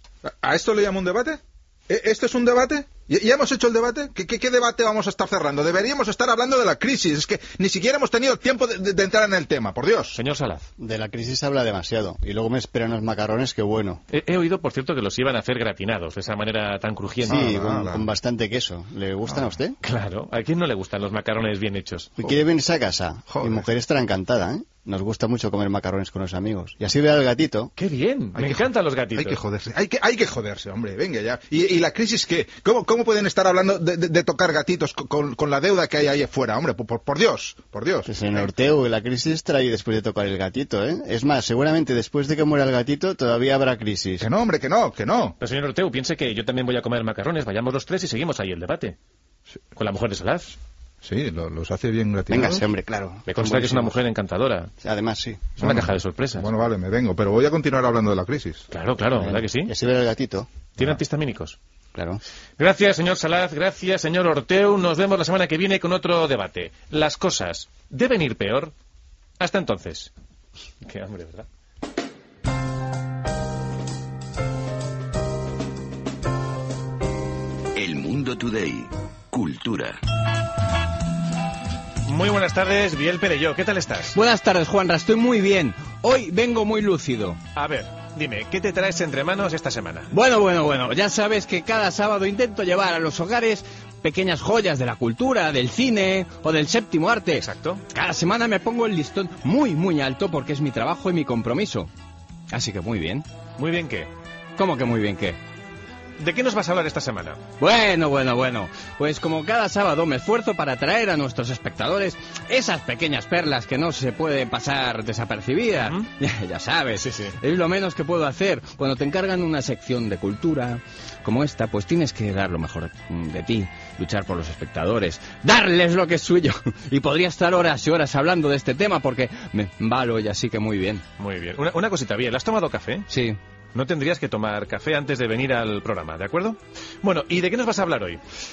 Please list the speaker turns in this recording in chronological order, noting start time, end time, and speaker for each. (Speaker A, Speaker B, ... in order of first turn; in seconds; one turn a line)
Speaker A: 0.2-10.2
Speaker B: 10.1-10.7
Speaker C: 10.8-14.0
Speaker B: 14.1-17.4
Speaker A: 17.2-18.1
Speaker C: 17.2-19.8
Speaker B: 19.8-22.1
Speaker C: 22.2-27.7
Speaker A: 23.3-23.7
Speaker B: 27.8-29.4
Speaker A: 28.4-38.7
Speaker C: 38.1-44.3
Speaker A: 44.2-45.4
Speaker B: 45.4-49.0
Speaker B: 49.8-50.6
Speaker A: 51.0-52.6
Speaker C: 52.3-54.0
Speaker B: 53.3-54.7
Speaker C: 54.8-55.5
Speaker B: 55.6-56.5
Speaker A: 55.6-58.7
Speaker B: 58.7-59.7
Speaker C: 59.2-60.5
Speaker B: 60.8-61.6
Speaker C: 61.9-62.2
Speaker B: 62.6-68.7
Speaker B: 69.4-70.1
Speaker B: 70.8-71.5
Speaker D: 77.8-80.0
Speaker B: 82.0-84.2
Speaker E: 84.2-87.4
Speaker B: 87.5-90.1
Speaker E: 90.1-101.9
Speaker B: 97.3-97.8
Speaker E: 102.5-103.3
Speaker B: 103.6-104.1
Speaker E: 104.6-105.4
Speaker B: 106.2-107.4
Speaker E: 107.6-131.0
Speaker B: 117.0-117.3
Speaker B: 131.2-133.1
Speaker E: 133.1-133.4
Speaker B: 133.8-138.2